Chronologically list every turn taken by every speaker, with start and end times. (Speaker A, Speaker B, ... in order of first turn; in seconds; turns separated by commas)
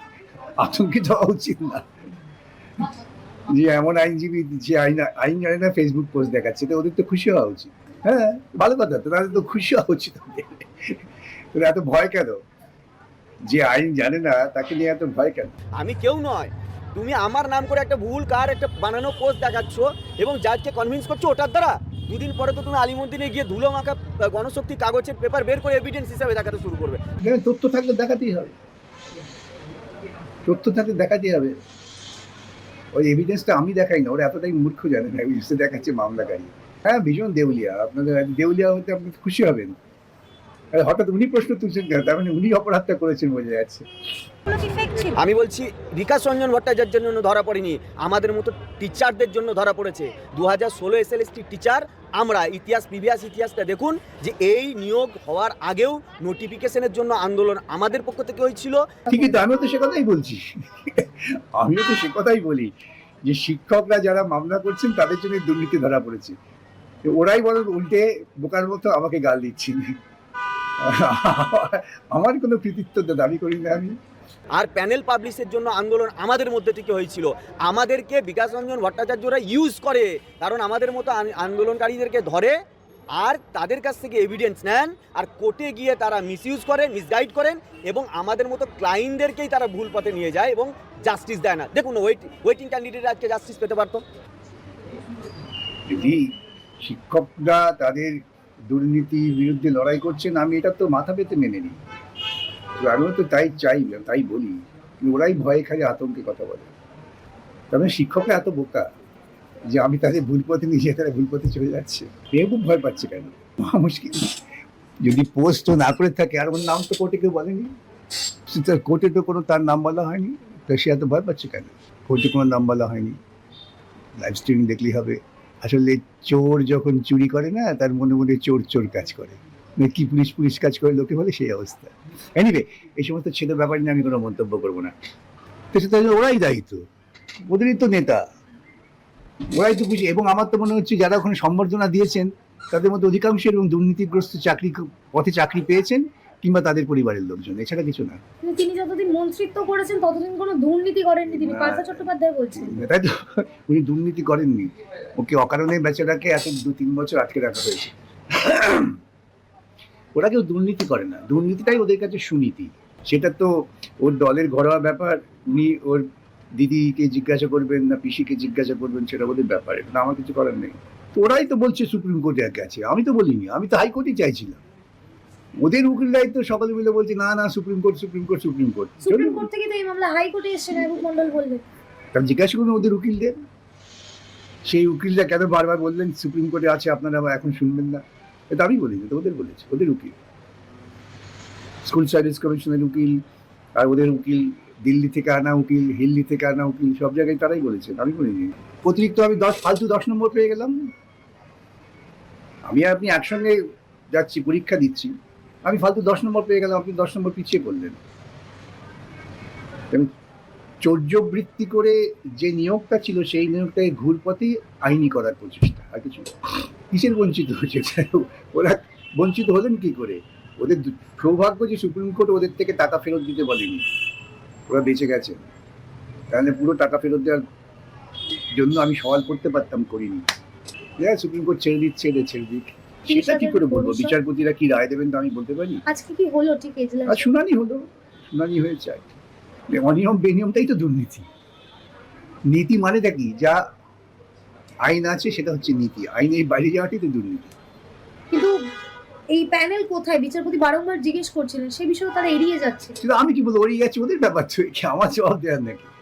Speaker A: 0.6-1.9, Speaker A: 3.5-11.0, Speaker A: 11.5-12.4, Speaker A: 13.5-15.5, Speaker B: 15.8-27.0, Speaker A: 27.2-28.5, Speaker A: 30.4-31.6, Speaker A: 32.9-39.8, Speaker A: 40.7-43.9, Speaker C: 44.5-45.2, Speaker B: 45.1-59.0, Speaker A: 59.1-62.7, Speaker A: 63.2-66.3, Speaker A: 67.0-70.0, Speaker A: 70.8-74.0, Speaker B: 74.5-82.6, Speaker B: 83.1-94.0, Speaker A: 95.9-96.3, Speaker A: 96.8-101.8, Speaker A: 102.8-106.7, Speaker A: 107.7-108.8, Speaker A: 109.7-114.3, Speaker A: 115.0-117.7, Speaker A: 118.5-123.2, Speaker A: 124.2-134.9, Speaker A: 135.7-136.8, Speaker A: 137.5-138.2, Speaker A: 139.5-148.2, Speaker C: 148.4-152.7, Speaker A: 151.2-159.0, Speaker A: 160.1-174.6, Speaker A: 175.6-179.5, Speaker C: 179.1-181.6, Speaker A: 182.1-183.3, Speaker A: 184.7-190.1, Speaker A: 191.8-193.2, Speaker A: 193.8-200.7, Speaker A: 202.7-203.6, Speaker A: 204.1-205.1, Speaker A: 205.6-208.0, Speaker A: 210.8-223.8, Speaker A: 224.7-225.4, Speaker A: 226.3-227.4, Speaker A: 228.5-230.2, Speaker A: 231.0-235.8, Speaker C: 233.1-234.1, Speaker C: 235.9-237.3, Speaker A: 237.1-239.0, Speaker A: 239.7-241.2, Speaker A: 242.5-243.6, Speaker A: 244.8-247.5, Speaker C: 249.3-252.9, Speaker A: 253.0-255.9